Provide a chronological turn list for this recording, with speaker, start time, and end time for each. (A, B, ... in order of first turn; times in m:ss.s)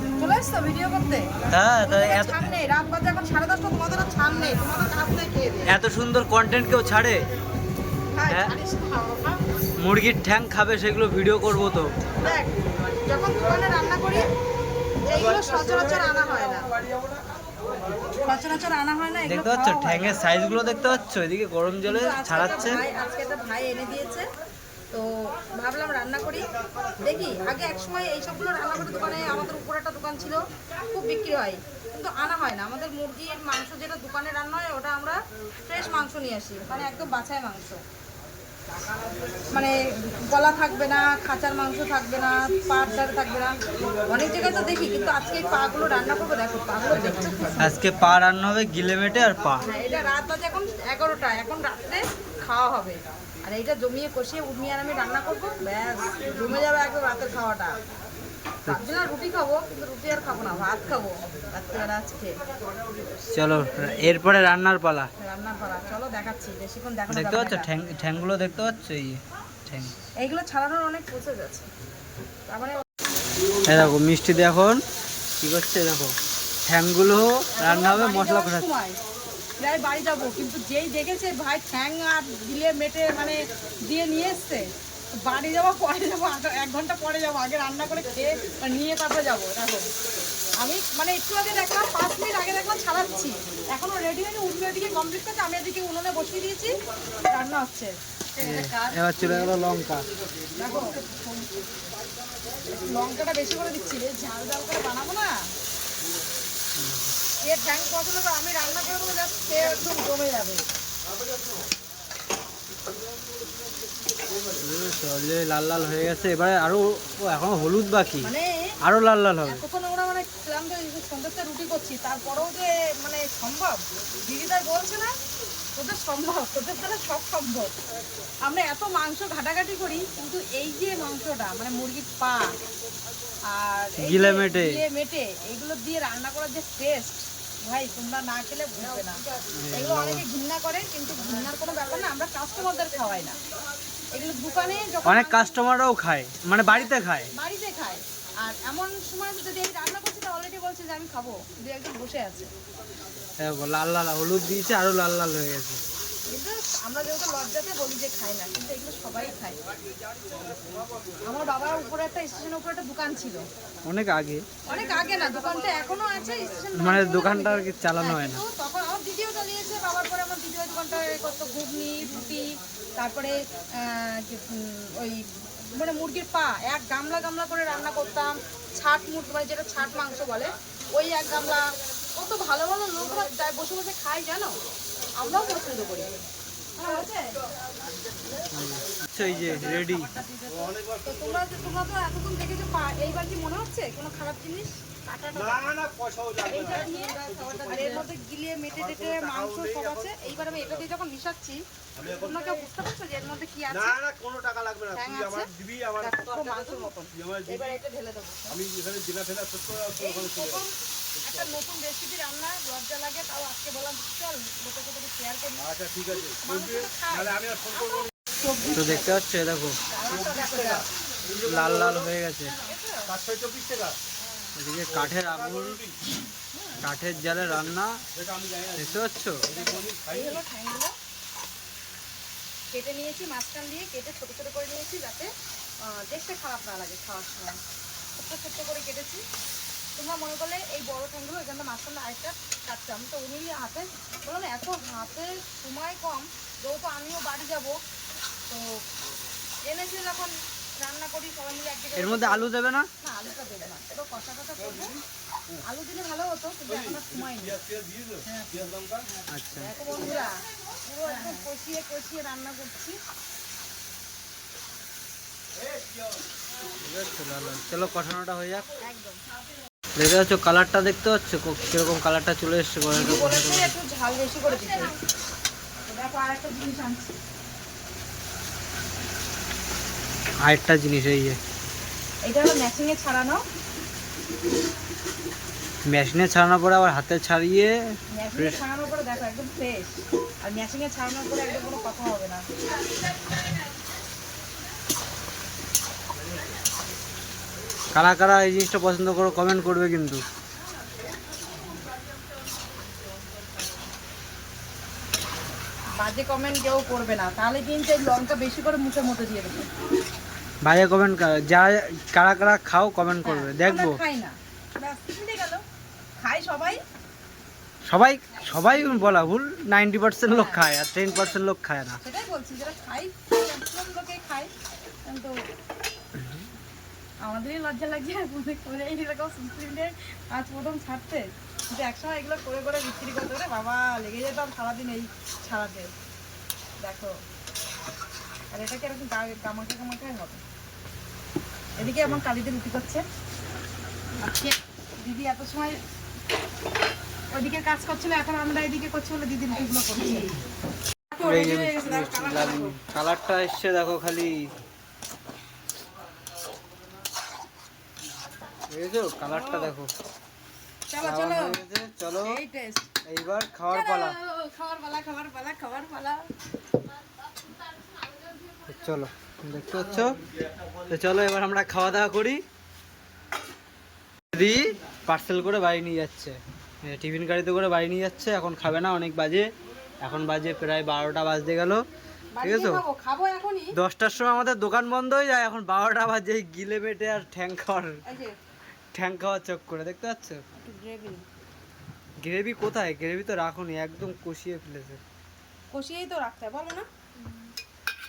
0:00.2-0:05.7 A
0:01.5-0:02.4 B
0:05.7-0:07.2 B
0:08.1-0:09.4 A
0:08.3-0:08.5 B
0:09.8-0:11.9 B
0:12.2-0:14.3 A
0:15.0-0:16.7 A
0:18.2-0:20.2 A
0:19.2-0:22.8 B
0:21.8-0:24.3 A
0:24.9-0:26.4 A
0:27.0-0:37.8 A
0:39.5-0:43.5 A
0:44.1-0:47.7 A
0:47.6-0:49.7 B
0:49.6-0:57.8 A
0:58.7-1:02.4 A
1:03.3-1:05.1 B
1:05.2-1:07.7 A
1:07.1-1:10.0 B
1:10.2-1:11.7 A
1:12.5-1:12.8 A
1:13.6-1:14.8 B
1:15.4-1:16.2 B
1:16.7-1:18.7 B
1:17.6-1:19.0 A
1:19.6-1:29.9 A
1:30.6-1:36.7 A
1:37.3-1:39.5 A
1:38.4-1:40.0 B
1:40.6-1:41.0 A
1:42.7-1:45.5 A
1:46.8-1:47.2 B
1:47.4-1:50.6 A
1:54.6-1:58.3 B
1:58.2-1:58.8 A
1:58.8-1:59.6 B
1:59.4-2:05.1 A
2:05.8-2:07.7 A
2:08.4-2:12.5 A
2:13.5-2:19.2 A
2:14.0-2:14.8 B
2:19.5-2:20.2 B
2:19.7-2:23.4 A
2:24.2-2:25.5 A
2:25.0-2:27.3 B
2:26.7-2:32.5 A
2:33.4-2:35.8 B
2:36.3-2:39.6 A
2:40.2-2:41.2 C
2:41.2-2:43.5 A
2:43.8-2:44.5 B
2:44.6-3:04.6 A
2:46.8-2:48.4 B
3:05.2-3:06.1 A
3:06.8-3:07.3 A
3:08.5-3:10.1 B
3:09.3-3:15.7 A
3:10.5-3:11.5 C
3:15.3-3:18.0 C
3:16.5-3:24.0 A
3:18.7-3:20.8 C
3:22.0-3:22.5 C
3:23.7-3:27.8 C
3:24.9-3:28.6 A
3:28.5-3:30.7 C
3:30.0-3:39.1 A
3:31.2-3:31.6 C
3:35.6-3:38.1 C
3:38.7-3:39.8 B
3:39.9-3:40.9 A
3:40.1-3:42.1 C
3:41.4-3:42.6 B
3:42.6-3:43.1 A
3:43.1-3:44.0 C
3:44.6-3:45.8 B
3:44.9-3:46.0 C
3:46.5-3:46.8 A
3:46.8-3:48.0 B
3:48.1-3:50.4 C
3:48.8-3:49.4 B
3:49.5-3:51.0 A
3:52.7-3:57.6 A
3:58.2-3:59.2 A
4:00.0-4:07.8 A
4:08.5-4:08.8 A
4:09.6-4:15.0 A
4:12.0-4:12.9 B
4:14.6-4:15.6 C
4:15.6-4:17.6 A
4:16.7-4:19.1 C
4:18.3-4:18.5 A
4:19.3-4:19.7 B
4:19.5-4:23.0 A
4:26.8-4:28.7 B
4:28.8-4:29.2 A
4:30.0-4:33.7 B
4:32.9-4:34.9 A
4:35.9-4:37.1 A
4:40.5-4:41.4 B
4:42.2-4:43.4 A
4:45.9-4:47.8 B
4:48.1-4:52.4 A
4:57.9-5:00.2 B
5:06.0-5:09.7 A
5:10.6-5:14.0 B
5:13.2-5:15.6 A
5:16.2-5:16.8 A
5:17.9-5:22.0 B
5:20.3-5:20.7 A
5:22.0-5:24.5 A
5:25.0-5:25.3 A
5:27.2-5:35.9 A
5:36.8-5:37.2 A
5:38.5-5:40.4 A
5:41.8-5:42.2 B
5:41.8-5:43.0 A
5:44.2-5:45.8 A
5:47.3-5:50.4 A
5:51.1-5:52.8 A
5:51.2-5:54.5 B
5:58.7-5:59.9 B
5:59.2-5:59.7 A
6:00.9-6:01.6 A
6:01.0-6:02.4 B
6:02.2-6:02.9 A
6:03.0-6:04.2 B
6:03.7-6:06.3 A
6:08.7-6:10.2 B
6:10.9-6:12.4 B
6:14.3-6:19.5 B
6:20.0-6:21.9 B
6:22.3-6:23.8 A
6:22.4-6:22.8 B
6:23.8-6:28.0 B
6:28.0-6:28.4 A
6:28.9-6:30.4 B
6:30.6-6:31.2 A
6:32.2-6:35.0 B
6:35.7-6:36.9 A